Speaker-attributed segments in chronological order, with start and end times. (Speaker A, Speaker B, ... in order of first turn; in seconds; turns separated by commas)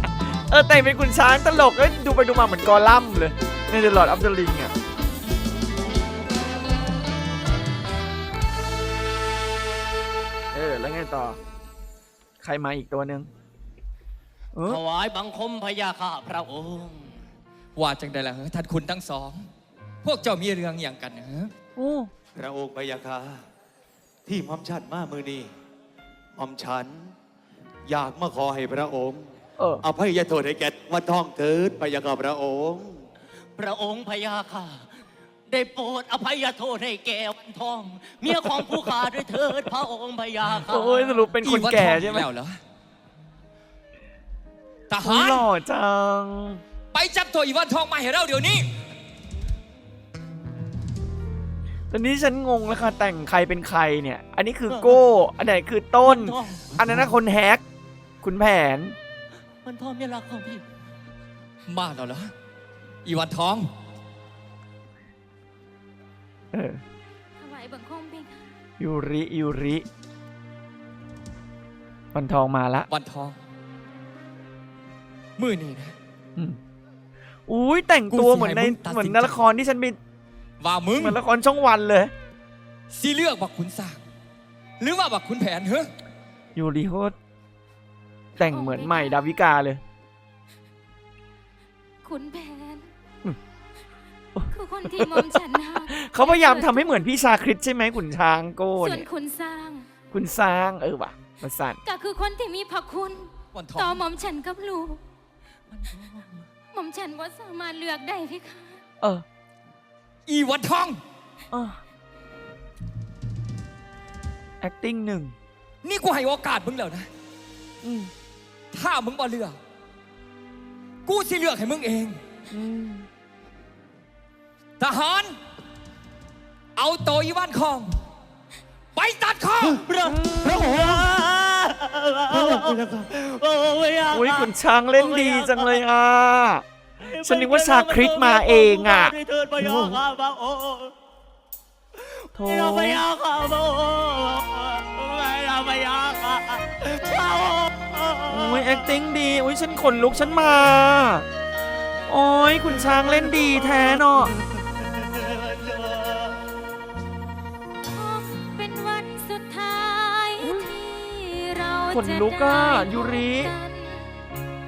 Speaker A: 0.3-4.7, Speaker A: 10.5-11.4, Speaker A: 12.4-13.3, Speaker A: 14.5-14.8, Speaker B: 14.7-17.2, Speaker C: 17.8-19.5, Speaker C: 20.0-21.5, Speaker A: 21.8-22.1, Speaker D: 22.4-23.4, Speaker D: 24.3-25.5, Speaker D: 26.4-27.1, Speaker D: 27.9-29.3, Speaker A: 29.6-29.9, Speaker D: 29.8-33.0, Speaker B: 33.6-34.9, Speaker B: 35.5-41.2, Speaker A: 40.6-42.3, Speaker C: 41.4-42.6, Speaker C: 44.9-45.5, Speaker A: 45.0-46.6, Speaker C: 46.9-48.7, Speaker A: 51.9-57.6, Speaker B: 54.7-55.0, Speaker B: 56.0-56.7, Speaker A: 58.2-59.0, Speaker B: 59.6-60.6, Speaker C: 61.7-62.3, Speaker C: 63.0-63.7, Speaker A: 66.5-66.8, Speaker E: 67.4-68.5, Speaker A: 68.8-69.9, Speaker A: 72.1-72.9, Speaker C: 72.9-73.4, Speaker C: 75.4-76.0, Speaker A: 77.5-80.0, Speaker C: 78.1-79.4, Speaker C: 80.6-81.2, Speaker A: 81.0-82.1, Speaker C: 82.9-84.0, Speaker C: 84.8-85.9, Speaker A: 86.5-87.2, Speaker E: 88.4-89.4, Speaker A: 88.4-89.8, Speaker E: 92.0-92.9, Speaker A: 94.4-99.1, Speaker E: 94.5-97.1, Speaker E: 98.8-99.9, Speaker A: 100.1-101.8, Speaker E: 101.8-105.0, Speaker C: 103.5-104.0, Speaker B: 105.7-106.5, Speaker E: 106.6-108.8, Speaker C: 110.3-111.0, Speaker A: 111.5-111.8, Speaker A: 114.6-115.3, Speaker C: 115.8-117.1, Speaker A: 117.8-118.1, Speaker C: 118.7-119.6, Speaker C: 121.0-122.2, Speaker A: 122.5-123.1, Speaker C: 124.8-125.4, Speaker C: 126.8-128.0, Speaker C: 128.9-129.8, Speaker B: 129.8-135.8, Speaker D: 132.3-133.2, Speaker A: 134.1-136.7, Speaker B: 137.0-140.9, Speaker A: 137.2-140.0, Speaker B: 142.2-148.7, Speaker A: 142.3-143.1, Speaker A: 148.3-151.3, Speaker A: 152.1-154.3, Speaker B: 155.2-156.4, Speaker E: 157.9-164.3, Speaker A: 160.4-160.7, Speaker A: 161.9-163.5